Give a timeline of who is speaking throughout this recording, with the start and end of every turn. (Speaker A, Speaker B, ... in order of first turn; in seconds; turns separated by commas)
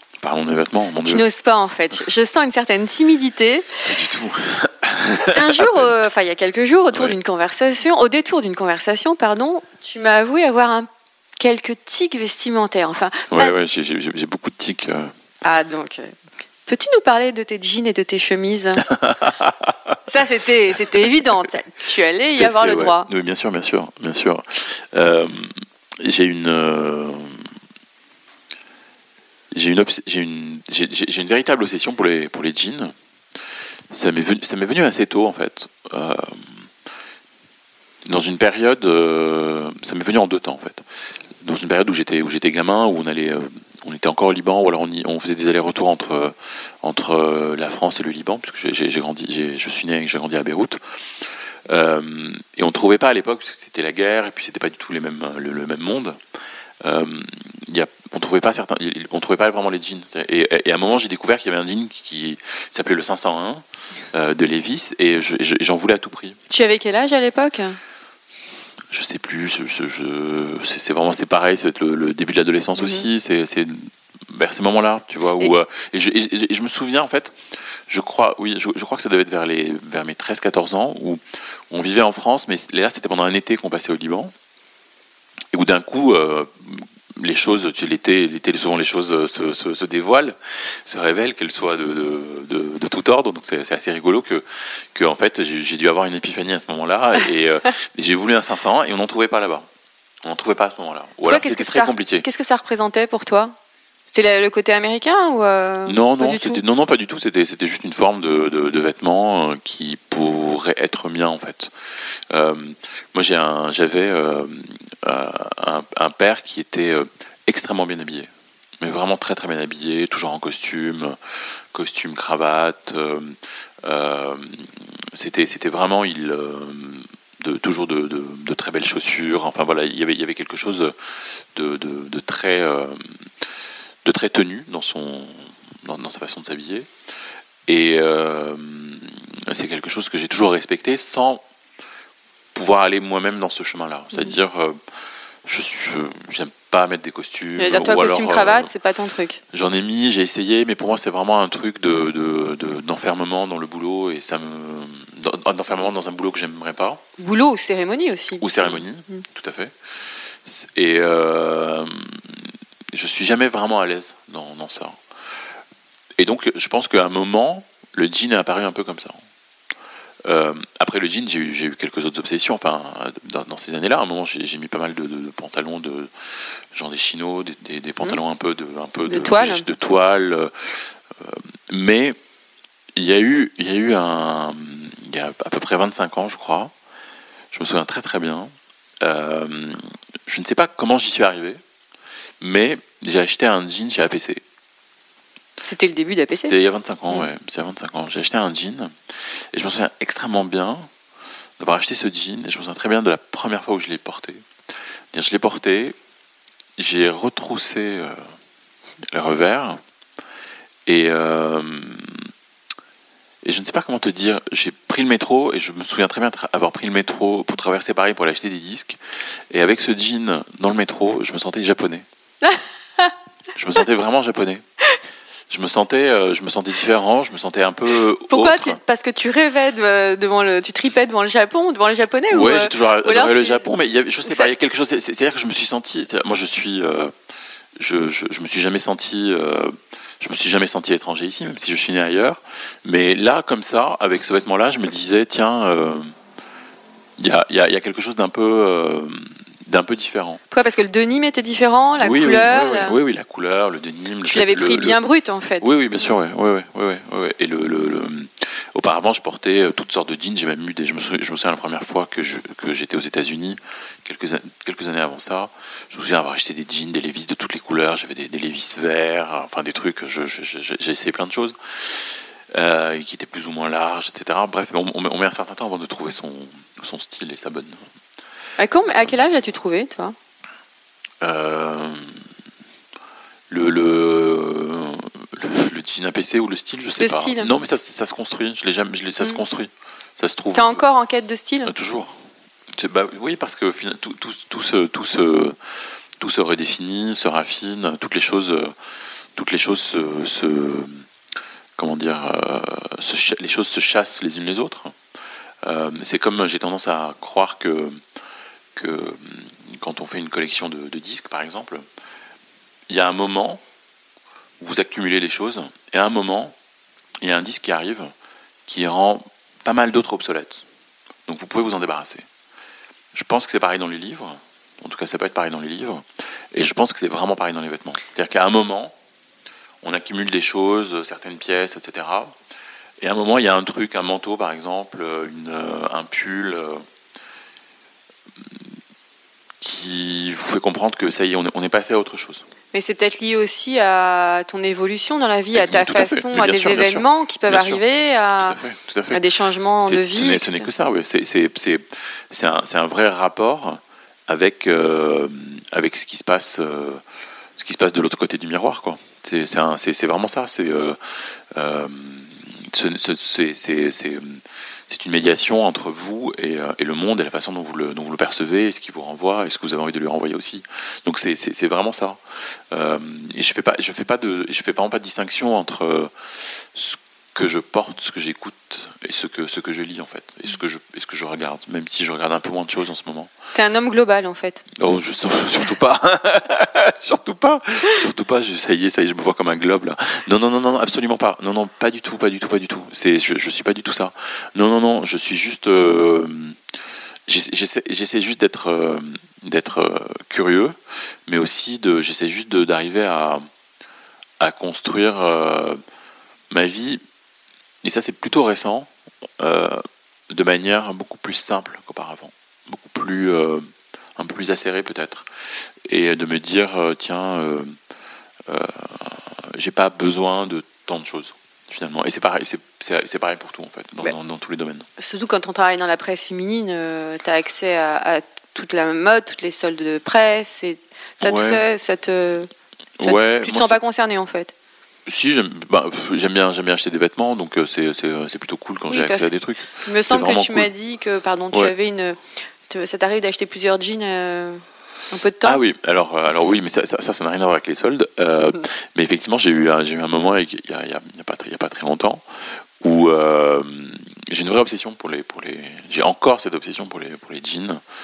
Speaker A: 0.2-1.2, Speaker B: 1.0-3.9, Speaker A: 3.8-5.9, Speaker B: 5.2-13.5, Speaker A: 13.3-15.1, Speaker B: 15.4-18.9, Speaker A: 19.0-19.7, Speaker B: 20.1-23.1, Speaker A: 22.4-27.5, Speaker A: 29.5-33.0, Speaker A: 33.9-36.7, Speaker A: 38.1-40.9, Speaker A: 41.4-56.2, Speaker A: 56.8-66.4, Speaker B: 66.5-67.8, Speaker A: 68.9-84.3, Speaker B: 72.8-73.1, Speaker A: 85.5-99.7, Speaker A: 100.2-102.2, Speaker B: 101.2-103.5, Speaker B: 104.1-106.6, Speaker A: 105.9-111.7, Speaker A: 112.3-121.2, Speaker A: 121.7-130.9, Speaker A: 131.6-133.1, Speaker A: 134.1-136.9, Speaker A: 137.7-141.4, Speaker A: 142.5-144.8, Speaker A: 145.4-148.7, Speaker B: 147.6-149.4, Speaker A: 149.5-157.0, Speaker B: 157.2-159.2, Speaker A: 158.4-159.7, Speaker A: 160.4-165.0, Speaker A: 166.2-169.2, Speaker A: 170.2-176.1, Speaker A: 176.7-182.2, Speaker B: 179.1-179.7, Speaker A: 182.9-186.7, Speaker A: 187.5-191.6, Speaker A: 192.4-194.4, Speaker B: 195.6-196.5, Speaker A: 196.3-198.9, Speaker A: 199.5-200.9, Speaker A: 201.6-204.5, Speaker A: 205.1-206.0, Speaker A: 206.8-208.3, Speaker A: 209.1-209.8, Speaker A: 210.9-212.3, Speaker A: 213.4-219.0, Speaker A: 219.5-222.1, Speaker B: 222.4-223.1, Speaker A: 223.6-224.6, Speaker A: 225.5-228.8, Speaker B: 228.3-233.7, Speaker A: 232.3-237.1, Speaker B: 234.2-234.7, Speaker A: 237.8-246.1, Speaker A: 247.2-250.4, Speaker B: 250.5-253.0, Speaker A: 252.0-255.0, Speaker B: 254.2-255.7, Speaker A: 255.6-277.9, Speaker B: 278.6-280.2, Speaker A: 281.2-282.3, Speaker A: 283.5-290.8, Speaker B: 287.0-287.5, Speaker B: 290.5-291.7, Speaker A: 291.6-295.6, Speaker A: 296.2-298.7, Speaker A: 299.4-301.1, Speaker A: 301.8-304.9, Speaker A: 305.6-308.0, Speaker A: 308.7-311.8, Speaker A: 312.9-313.6, Speaker A: 314.6-316.6, Speaker A: 317.2-318.1, Speaker A: 318.7-320.6, Speaker A: 321.3-322.3, Speaker A: 323.1-328.9, Speaker A: 329.8-332.4, Speaker A: 333.0-336.8, Speaker A: 338.4-338.7, Speaker A: 339.6-342.4, Speaker B: 342.7-348.6, Speaker A: 345.5-347.8, Speaker A: 348.4-349.2, Speaker B: 349.1-350.7, Speaker A: 349.8-357.0, Speaker A: 357.6-376.1, Speaker A: 376.7-383.3, Speaker B: 383.5-384.6, Speaker A: 384.8-396.6, Speaker A: 397.3-403.4, Speaker A: 404.4-405.8, Speaker A: 406.5-407.0, Speaker A: 407.8-415.3, Speaker A: 415.9-417.7, Speaker A: 418.5-424.9, Speaker B: 425.0-432.5, Speaker A: 431.2-431.6, Speaker A: 433.0-433.8, Speaker B: 433.0-434.5, Speaker A: 435.1-440.7, Speaker B: 438.9-445.6, Speaker A: 445.4-452.2, Speaker A: 452.8-457.8